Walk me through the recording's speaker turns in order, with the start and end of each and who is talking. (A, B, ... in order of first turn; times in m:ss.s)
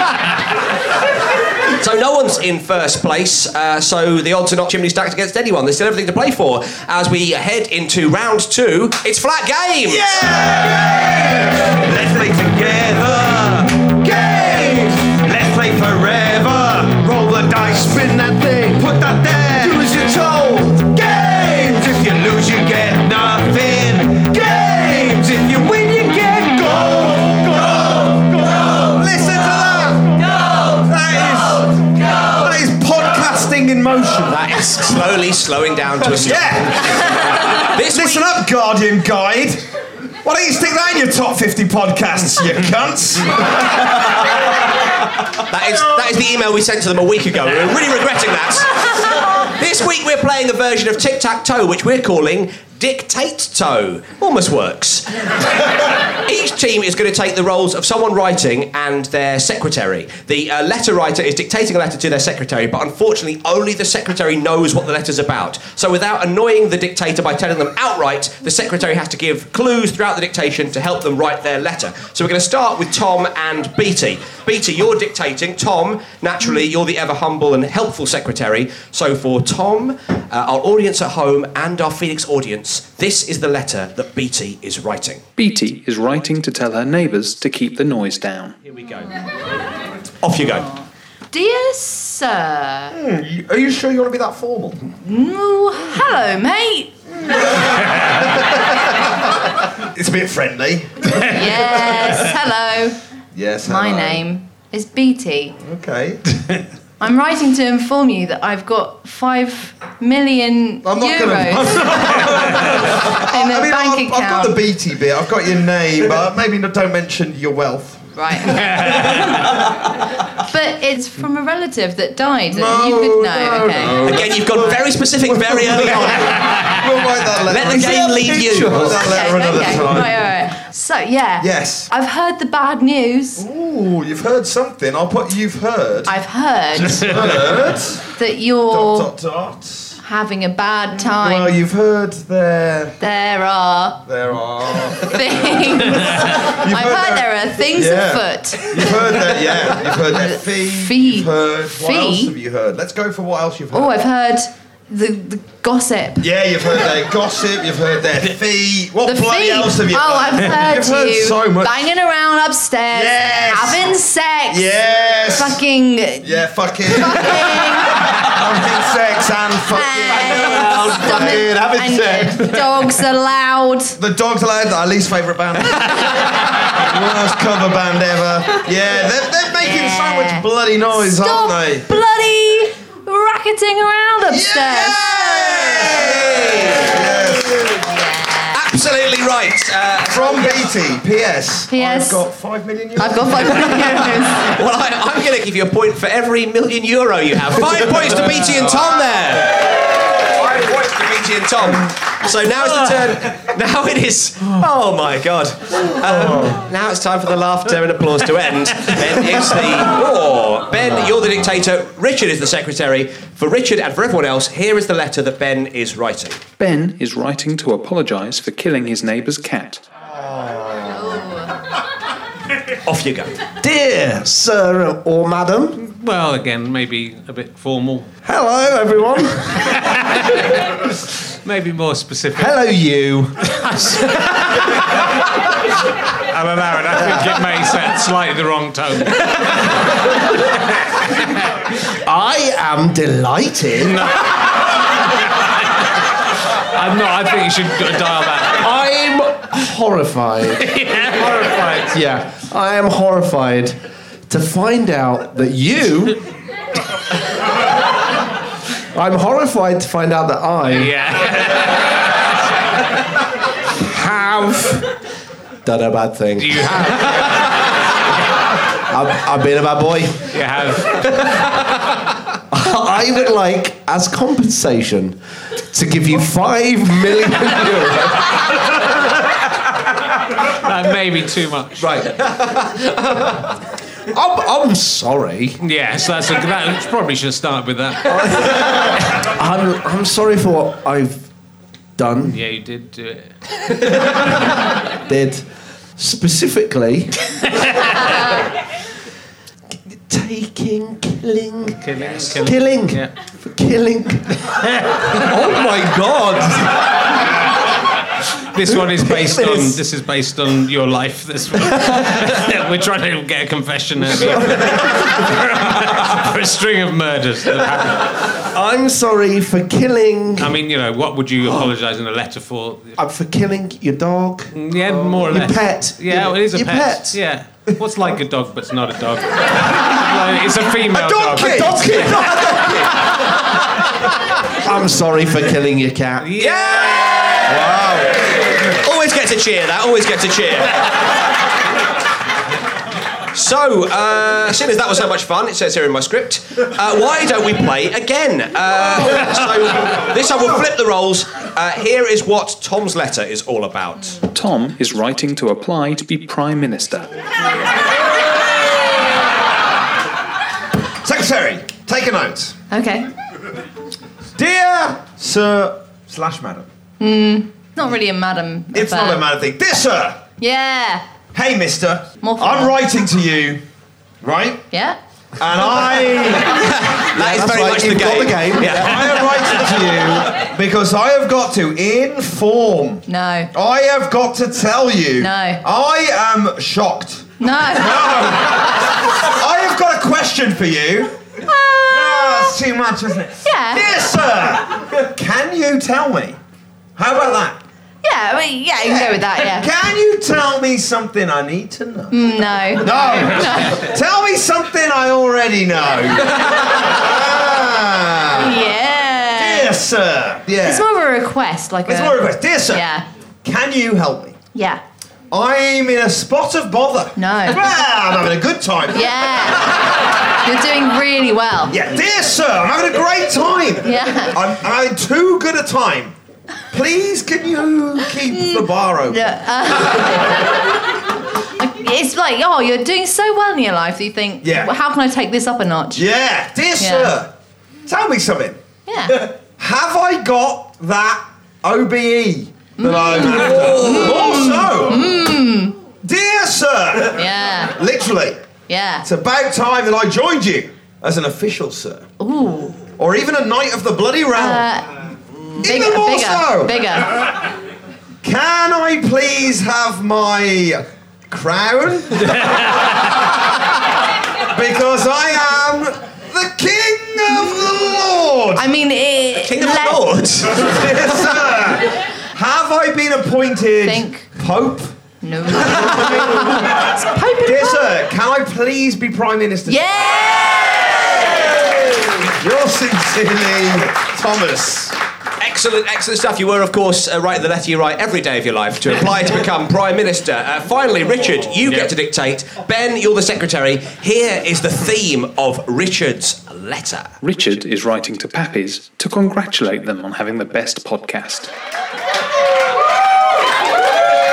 0:01.8-0:10.2 A
0:09.8-0:34.6 B
0:34.3-0:38.3 A
0:36.0-0:39.6 B
0:40.2-0:44.1 B
0:45.5-0:55.5 A
0:56.2-1:25.2 A
1:25.4-1:28.6 C
1:28.7-1:29.2 A
1:30.2-1:30.7 A
1:30.7-1:33.0 D
1:32.9-1:34.8 B
1:35.0-1:36.9 D
1:37.3-1:38.2 B
1:39.9-1:42.0 B
1:41.2-1:43.0 D
1:43.3-1:44.2 B
1:43.6-1:45.5 D
1:45.6-1:46.2 B
1:47.0-1:54.6 D
1:50.8-1:59.3 B
1:58.2-1:59.2 D
1:58.8-1:59.1 E
2:00.4-2:04.1 D
2:02.5-2:10.3 B
2:04.0-2:06.5 A
2:06.4-2:06.8 E
2:07.4-2:09.1 A
2:08.5-2:08.8 F
2:09.0-2:13.4 D
2:11.4-2:11.9 B
2:13.4-2:16.1 B
2:16.1-2:17.2 D
2:16.8-2:18.1 B
2:18.1-2:19.1 D
2:18.7-2:20.0 B
2:20.0-2:21.6 D
2:21.0-2:22.9 B
2:23.0-2:24.0 D
2:24.0-2:34.0 B
2:25.0-2:29.4 D
2:29.9-2:32.3 D
2:33.7-2:36.3 D
2:36.2-2:41.8 B
2:39.0-2:48.0 D
2:42.9-2:43.9 B
2:44.5-2:45.6 B
2:46.2-2:51.6 B
2:49.7-2:54.0 D
2:54.0-3:01.8 B
2:59.6-3:06.0 D
3:04.3-3:07.8 B
3:05.8-3:07.0 A
3:07.8-3:08.6 D
3:08.5-3:10.7 A
3:10.1-3:14.3 B
3:11.7-3:12.2 D
3:13.0-3:14.5 D
3:14.4-3:19.7 A
3:20.2-3:36.4 A
3:36.6-3:39.8 C
3:40.1-3:41.2 F
3:40.9-3:41.5 D
3:42.8-3:43.4 A
3:43.5-3:45.8 F
3:45.8-3:48.1 E
3:48.2-3:49.7 F
3:49.6-3:50.5 E
3:51.4-3:52.6 E
3:52.4-3:53.4 F
3:53.5-3:54.6 E
3:56.3-3:59.8 E
3:56.9-3:57.4 F
4:02.0-4:04.1 F
4:06.7-4:08.7 E
4:08.5-4:10.7 F
4:10.6-4:12.0 E
4:11.9-4:16.2 F
4:18.9-4:20.9 F
4:20.7-4:21.9 E
4:23.8-4:24.9 F
4:25.6-4:27.5 F
4:26.4-4:27.5 E
4:28.9-4:31.5 F
4:30.3-4:31.4 E
4:32.5-4:38.4 F
4:40.6-4:42.0 E
4:41.8-4:43.3 F
4:44.1-4:45.6 F
4:45.6-4:48.6 E
4:48.0-4:51.3 F
4:52.0-4:52.4 F
4:52.2-4:53.3 E
4:55.1-4:57.2 F
5:00.0-5:04.5 F
5:01.8-5:03.1 E
5:04.9-5:05.3 E
5:05.0-5:06.9 F
5:08.5-5:18.3 E
5:08.6-5:09.8 F
5:11.7-5:12.5 F
5:14.0-5:15.4 F
5:18.4-5:20.6 F
5:20.4-5:23.0 E
5:21.4-5:21.7 F
5:23.0-5:27.2 F
5:24.5-5:32.2 E
5:30.9-5:32.9 B
5:31.4-5:32.6 F
5:34.6-5:36.4 F
5:36.2-5:36.9 E
5:36.4-5:37.6 A
5:37.5-5:38.5 B
5:38.6-5:40.9 A
5:43.3-5:54.2 A
5:54.3-5:57.1 C
6:01.0-6:02.6 B
6:02.7-6:03.1 D
6:04.4-6:06.6 B
6:07.0-6:09.2 D
6:08.7-6:10.2 B
6:10.4-6:11.0 D
6:11.3-6:13.6 B
6:12.2-6:12.7 D
6:14.2-6:14.6 B
6:14.7-6:15.0 D
6:15.4-6:31.1 B
6:16.5-6:19.8 A
6:17.2-6:18.6 F
6:23.1-6:23.5 D
6:25.2-6:25.6 D
6:27.4-6:28.6 D
6:31.4-6:32.6 D
6:31.9-6:36.4 B
6:33.4-6:33.8 D
6:37.0-6:37.6 B
6:38.0-6:39.7 D
6:38.8-6:42.1 B
6:42.1-6:43.9 D
6:42.8-6:48.6 B
6:48.3-6:49.8 D
6:49.3-6:50.8 B
6:50.6-6:53.0 D
6:51.8-6:52.8 B
6:53.4-6:54.4 B
6:54.5-6:54.8 D
6:55.3-6:59.9 B
6:57.2-6:57.8 D
6:58.9-7:01.8 D
7:01.7-7:06.1 B
7:03.8-7:04.4 D
7:06.7-7:10.1 B
7:08.3-7:10.6 D
7:11.6-7:16.0 D
7:14.4-7:14.7 B
7:15.9-7:17.3 B
7:16.8-7:17.1 D
7:17.8-7:25.2 B
7:18.9-7:19.2 D
7:22.8-7:25.8 D
7:26.0-7:28.4 B
7:27.1-7:27.7 D
7:28.7-7:29.0 D
7:29.0-7:32.0 B
7:32.2-7:32.9 D
7:33.0-7:34.7 B
7:34.3-7:34.9 D
7:35.6-7:37.4 D
7:35.6-7:36.8 B
7:38.2-7:42.5 B
7:44.5-7:48.7 B
7:48.6-7:50.2 D
7:49.4-7:50.8 A
7:50.5-7:54.9 B
7:53.8-7:54.2 D
7:55.2-7:57.9 D
7:55.5-7:56.8 B
7:57.4-8:00.4 B
7:59.6-8:01.2 D
8:02.4-8:05.0 B
8:05.4-8:17.1 A
8:17.2-8:21.5 C